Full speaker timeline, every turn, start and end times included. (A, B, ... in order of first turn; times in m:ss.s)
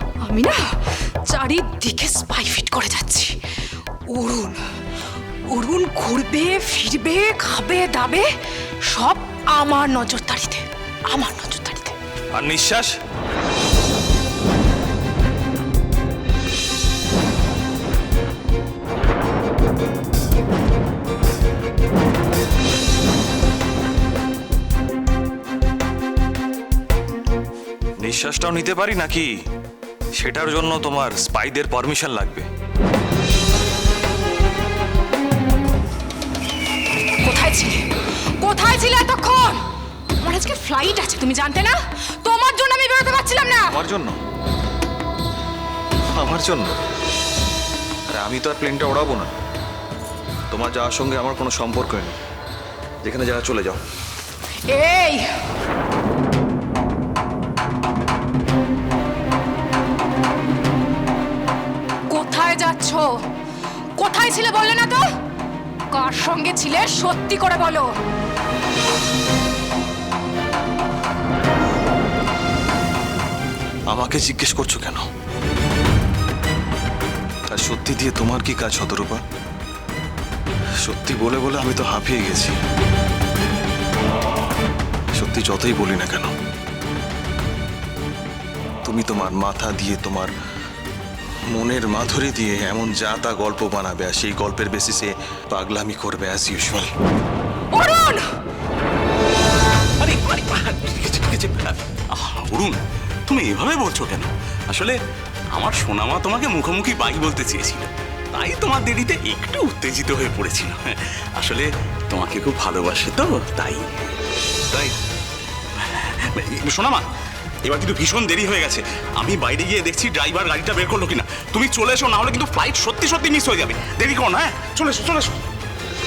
0:00.2-0:03.4 A
0:04.1-0:04.6 A
0:05.5-0:08.3 A
0:08.9-0:12.0 A
0:12.3-0:13.0 B
0:28.0-0:29.4 B
0:30.2-0:32.5 B
0:37.2-0:37.8 A
0:38.4-0:39.6 A
0:40.2-0:43.8 A
0:43.7-0:44.2 B
0:46.2-0:46.8 B
0:48.1-0:49.3 B
0:50.5-0:52.2 B
0:53.0-0:53.8 B
0:54.7-0:55.3 A
1:02.1-1:03.1 A
1:04.0-1:05.1 A
1:05.9-1:07.9 A
1:13.9-1:15.0 B
1:17.5-1:19.2 B
1:20.8-1:22.6 B
1:25.2-1:26.3 B
1:28.8-1:30.3 B
1:31.5-1:36.9 B
1:37.7-1:38.3 A
1:40.0-1:45.0 C
1:45.5-1:53.9 C
1:54.7-1:55.0 C
1:55.8-1:57.1 C
1:57.6-2:05.4 C